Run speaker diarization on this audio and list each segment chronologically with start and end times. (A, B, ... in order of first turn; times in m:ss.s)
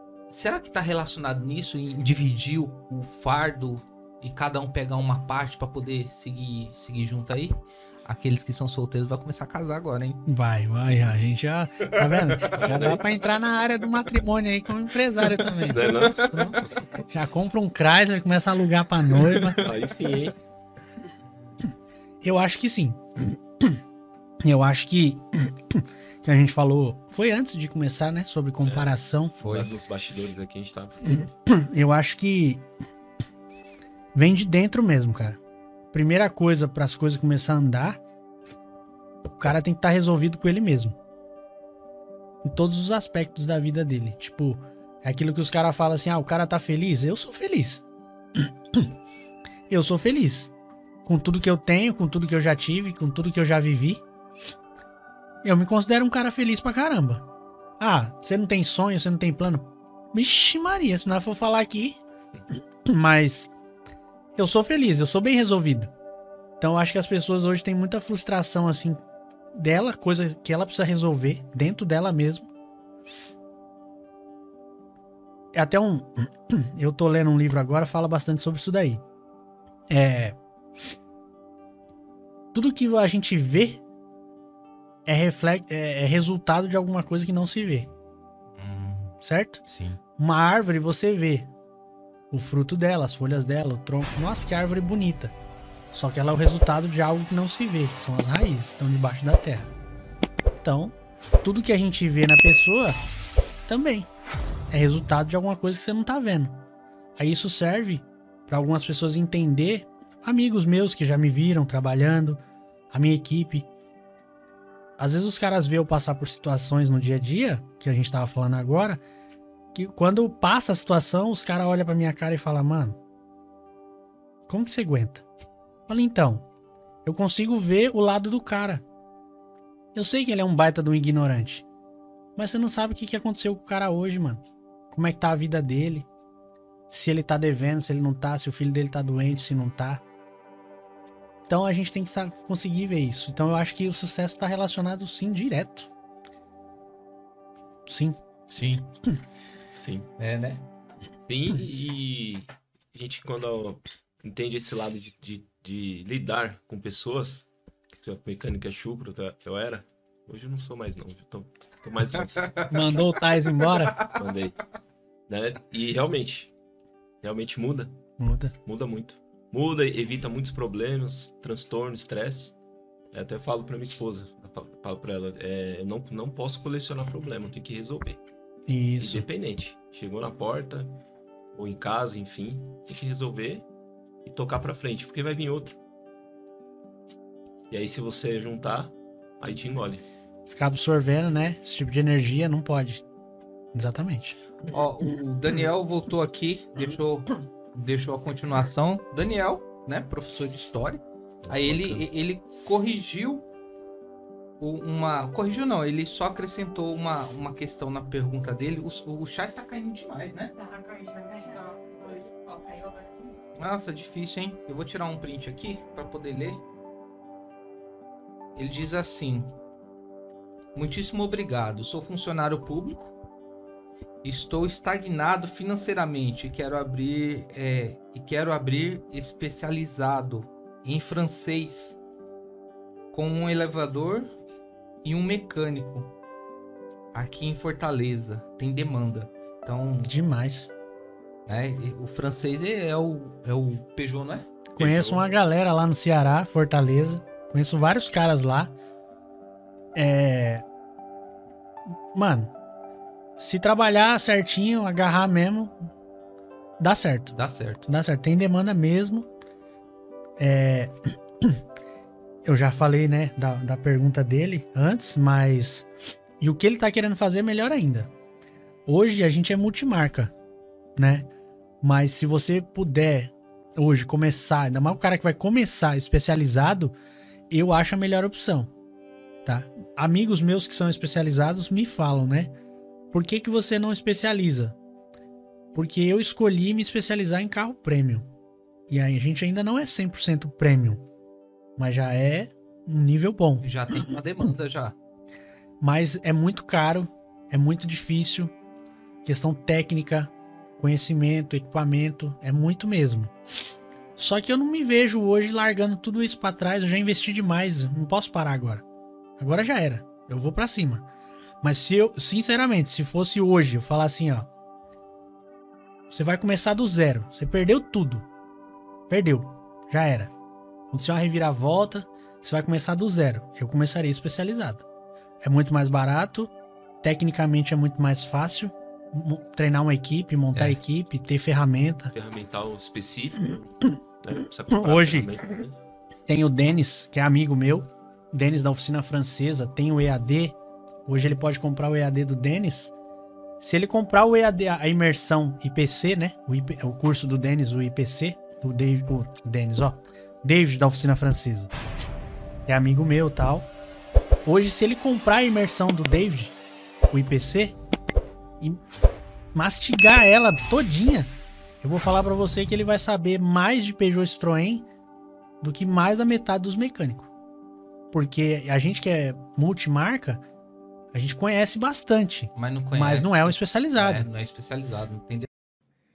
0:00.3-0:10.2 A
0:10.2-0:19.6 B
0:12.5-0:13.1 C
0:15.6-0:16.6 C
0:19.6-0:20.3 C
0:22.2-0:23.0 B
0:24.4-0:29.3 B
0:28.6-0:31.1 C
0:29.4-0:29.7 A
0:31.0-0:32.6 B
0:34.1-0:35.4 B
0:35.9-0:38.0 B
0:39.4-0:41.0 B
0:42.4-0:47.8 B
0:48.4-0:48.9 B
0:49.7-0:50.5 B
0:51.0-0:54.0 B
0:55.4-0:57.2 B
0:57.8-1:02.0 B
1:02.9-1:03.5 B
1:04.4-1:05.9 B
1:06.6-1:09.0 B
1:09.5-1:12.5 B
1:15.5-1:19.0 B
1:19.9-1:20.4 B
1:22.5-1:23.8 B
1:25.0-1:27.9 B
1:28.5-1:30.0 A
1:29.2-1:29.6 B
1:30.2-1:31.5 B
1:32.3-1:35.3 B
1:35.9-1:39.7 B
1:40.6-1:43.0 B
1:43.7-1:44.1 B
1:44.7-1:46.6 B
1:47.2-1:53.7 B
1:55.0-1:59.0 B
1:59.7-2:03.0 B
2:04.5-2:05.2 B
2:05.9-2:06.4 B
2:07.0-2:08.8 B
2:09.9-2:11.6 B
2:12.4-2:16.1 B
2:16.9-2:20.0 B
2:21.5-2:25.9 B
2:27.9-2:28.2 B
2:28.5-2:28.9 A
2:29.7-2:30.1 C
2:30.2-2:30.7 A
2:31.2-2:37.5 C
2:38.0-2:42.7 C
2:42.7-2:44.0 B
2:44.1-2:44.6 C
2:45.3-2:46.5 C
2:47.2-2:48.0 C
2:48.2-2:48.5 B
2:48.6-2:52.6 C
2:53.1-2:58.2 C
2:58.7-2:59.3 B
2:59.0-3:01.0 C
3:01.5-3:03.6 C
3:04.2-3:05.8 C
3:07.7-3:10.0 C
3:10.5-3:13.0 B
3:13.7-3:14.4 B
3:14.7-3:23.4 A
3:21.4-3:22.1 C
3:24.6-3:30.6 A
3:30.6-3:33.3 D
3:33.5-3:36.6 A
3:38.5-3:39.6 A
3:40.7-3:43.1 A
3:44.2-3:52.0 A
3:53.1-3:54.3 A
3:55.0-3:56.1 A
3:57.1-4:00.1 A
4:00.0-4:00.7 B
4:01.5-4:04.5 A
4:04.7-4:08.7 B
4:04.8-4:05.3 C
4:09.9-4:10.6 B
4:12.1-4:12.5 B
4:13.4-4:15.8 B
4:16.8-4:17.3 B
4:17.3-4:17.8 A
4:17.8-4:19.3 B
4:20.4-4:21.5 B
4:22.4-4:25.9 B
4:26.4-4:28.1 B
4:28.8-4:30.3 B
4:31.0-4:31.3 B
4:31.8-4:36.9 B
4:37.5-4:38.7 B
4:39.4-4:42.5 B
4:43.1-4:44.8 B
4:45.7-4:48.2 B
4:48.9-4:51.0 B
4:51.8-4:53.7 B
4:53.6-4:55.0 A
4:55.8-4:58.5 B
4:59.2-5:03.3 B
5:04.2-5:08.8 B
5:09.4-5:11.1 B
5:11.6-5:14.5 B
5:16.1-5:18.3 B
5:19.1-5:20.3 B
5:20.9-5:24.8 B
5:25.4-5:32.1 B
5:30.5-5:30.8 A
5:32.1-5:35.8 C
5:34.7-5:35.4 B
5:36.3-5:42.9 B
5:43.6-5:51.7 B
5:52.6-5:53.7 B
5:54.4-5:56.6 B
5:57.1-5:57.8 B
5:59.5-6:04.9 B
6:05.6-6:07.3 B
6:08.1-6:10.4 B
6:11.1-6:14.3 B
6:12.5-6:15.5 A